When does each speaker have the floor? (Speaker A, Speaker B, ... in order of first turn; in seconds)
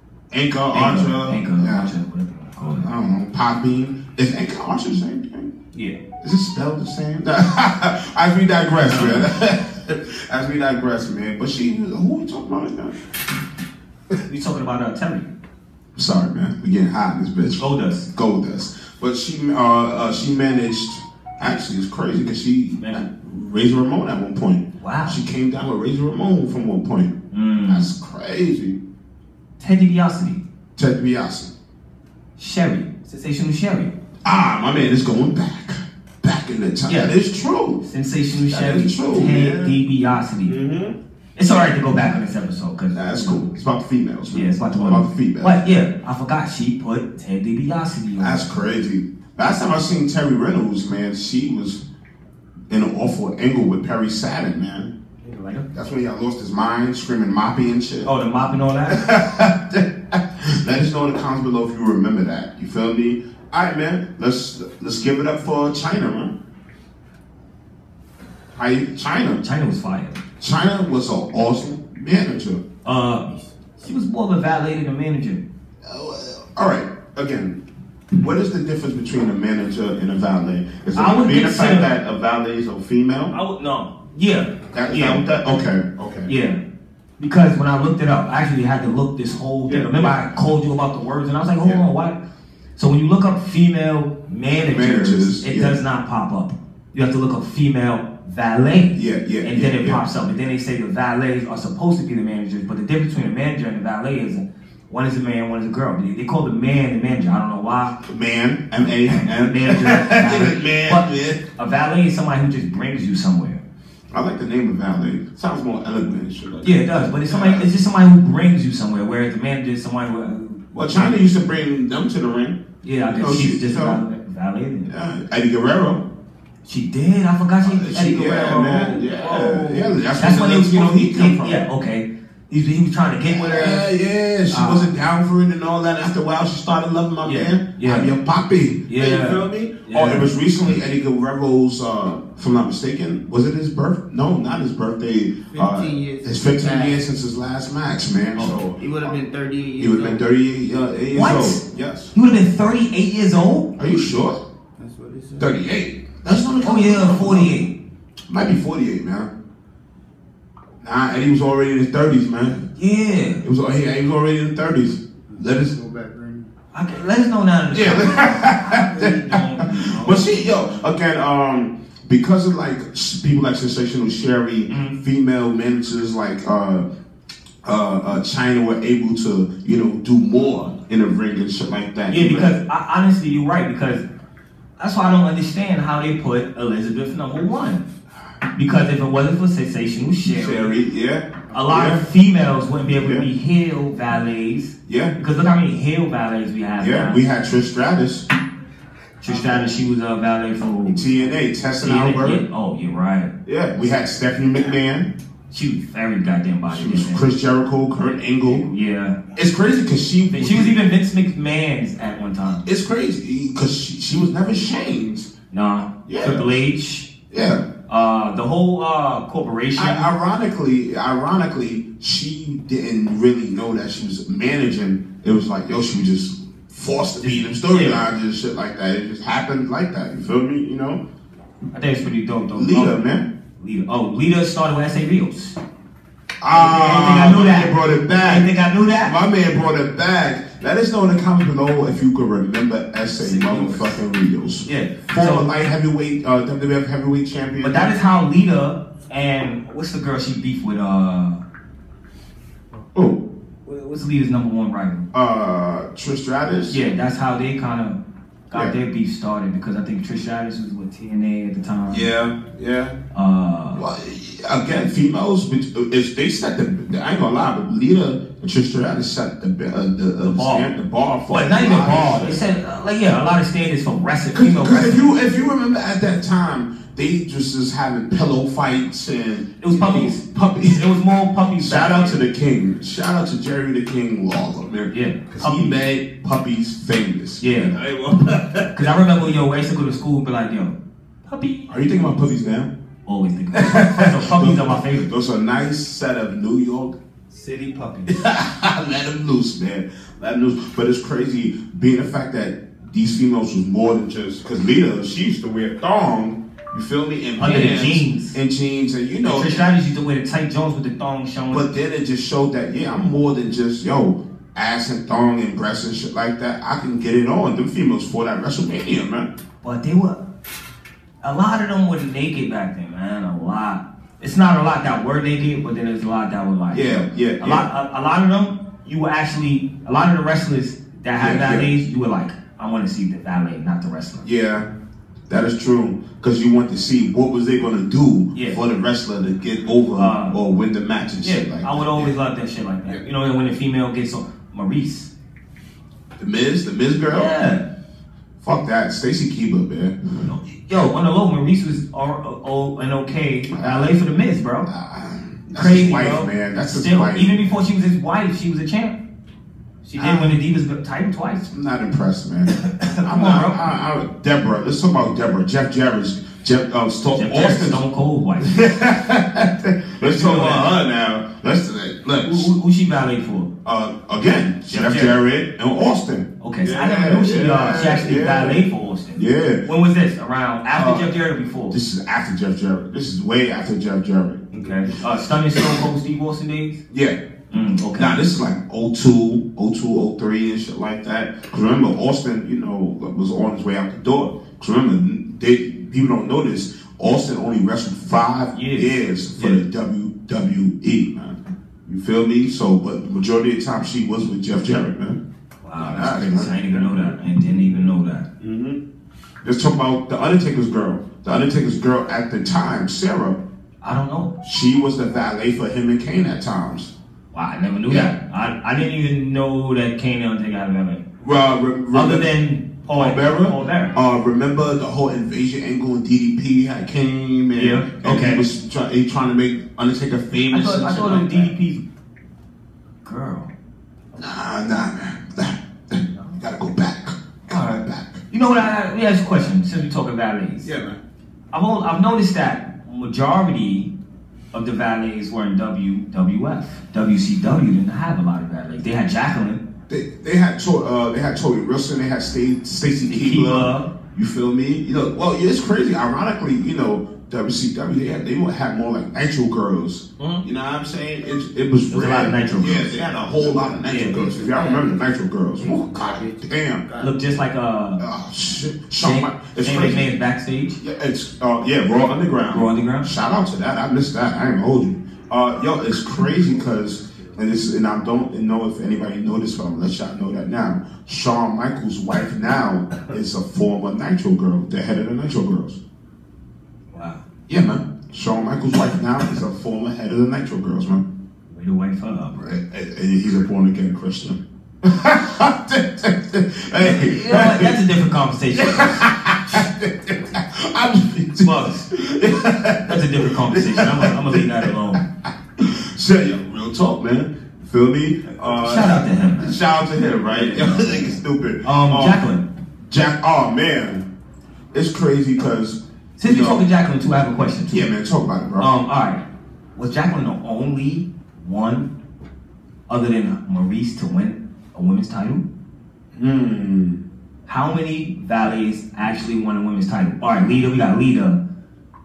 Speaker A: 0.3-1.9, 2.7-5.5, 6.2-13.0, 15.9-27.1, 27.7-28.8, 30.8-31.5, 34.2-37.8, 38.5-39.8, 40.5-41.0, 42.9-45.6, 48.2-51.8, 52.7-54.9, 55.7-58.1, 58.9-66.3, 68.5-69.4, 70.4-72.6, 75.8-77.6, 78.2-83.3, 84.7-86.3, 89.7-90.2, 94.7-95.8, 98.9-100.0, 108.0-111.4, 114.1-117.7, 120.7-122.6, 123.1-124.0, 124.9-126.1, 127.6-131.6, 133.2-149.2, 149.8-152.1, 153.8-154.4, 155.4-157.6, 158.3-159.3, 160.8-162.7, 163.4-165.8, 167.7-176.8, 177.6-182.5, 190.2-192.0, 192.9-193.3, 194.9-195.2, 196.8-198.2, 199.2-199.7, 200.9-202.4, 203.4-205.1, 206.7-208.7, 209.3-210.8, 212.6-215.3, 216.1-216.5, 217.3-217.7, 219.8-231.0, 232.6-233.3, 236.4-247.9, 252.9-253.2, 255.1-256.8, 261.9-263.0, 263.7-272.4, 274.3-280.3, 281.6-289.0, 291.7-292.7, 293.5-296.9, 298.1-309.7, 311.5-319.3, 326.7-327.6, 331.2-331.7, 334.2-334.7, 335.3-342.1, 346.2-347.3, 348.4-350.3, 353.5-353.9, 354.7-357.5, 360.0-360.4, 361.5-367.8, 368.4-372.5, 373.6-379.6, 380.7-381.1, 381.7-385.0, 385.5-385.8, 386.9-387.2, 387.9-405.2, 405.8-408.8, 409.4-413.4, 414.4-416.9, 417.9-418.1, 421.2-422.3, 422.9-431.5, 434.1-438.2, 440.6-441.0, 449.9-466.9, 468.0-470.1, 470.8-485.8, 487.5-491.0, 492.4-497.8, 498.5-512.2, 512.9-514.0, 514.7-516.6, 517.7-518.7, 526.1-527.0
Speaker B: 0.7-2.9, 5.7-6.0, 8.9-9.3, 14.2-15.3, 17.6-18.1, 22.8-23.0, 24.8-25.2, 27.3-27.9, 29.6-30.4, 32.4-33.9, 36.9-37.1, 37.8-40.5, 41.4-43.5, 44.3-48.5, 55.2-55.7, 58.0-59.0, 69.4-70.2, 72.8-75.4, 80.9-81.9, 83.3-85.2, 86.2-86.6, 87.2-92.2, 92.8-108.0, 109.0-113.6, 116.6-121.2, 122.8-124.9, 126.6-133.9, 134.5-134.9, 137.2-138.1, 138.9-140.3, 151.1-151.6, 152.1-153.7, 156.6-157.7, 162.7-163.4, 166.7-170.9, 174.7-175.0, 182.1-184.0, 184.8-187.8, 188.5-190.8, 191.5-197.2, 199.2-201.2, 201.8-203.3, 205.5-207.2, 208.4-209.2, 210.3-212.6, 215.5-217.1, 217.9-220.1, 227.2-228.0, 231.7-232.9, 233.6-235.6, 236.5-239.1, 243.2-244.0, 244.6-245.5, 247.6-251.4, 253.7-255.1, 256.7-258.0, 258.5-262.1, 263.1-263.8, 270.2-270.7, 271.3-275.1, 279.6-282.2, 284.9-285.8, 287.4-287.7, 288.7-291.7, 293.1-295.1, 297.3-298.1, 307.4-308.4, 309.2-311.6, 319.6-320.2, 321.2-334.2, 338.3-338.6, 339.9-340.4, 341.2-345.1, 347.1-347.6, 350.2-354.7, 355.5-359.0, 359.8-361.5, 362.6-363.6, 367.1-368.6, 370.1-370.7, 372.2-373.5, 374.7-375.1, 376.4-381.8, 384.5-386.8, 387.5-388.2, 398.5-399.6, 405.6-408.3, 413.8-414.3, 417.3-421.0, 421.9-423.9, 427.5-428.4, 430.5-431.8, 433.0-433.5, 436.0-436.4, 438.3-440.7, 441.5-443.9, 444.5-449.6, 453.1-453.9, 460.2-460.4, 461.9-463.0, 463.9-464.2, 467.0-468.1, 469.0-470.8, 472.5-473.1, 486.9-487.2, 491.5-492.6, 496.8-499.6, 501.4-501.9, 502.8-505.0, 508.4-509.6, 510.3-512.4, 516.2-517.9, 518.6-519.2, 519.7-521.9, 522.9-525.4, 527.5-531.4
Speaker C: 145.5-147.0, 148.7-150.2, 154.8-155.6, 165.3-166.5, 463.2-465.0, 465.6-467.1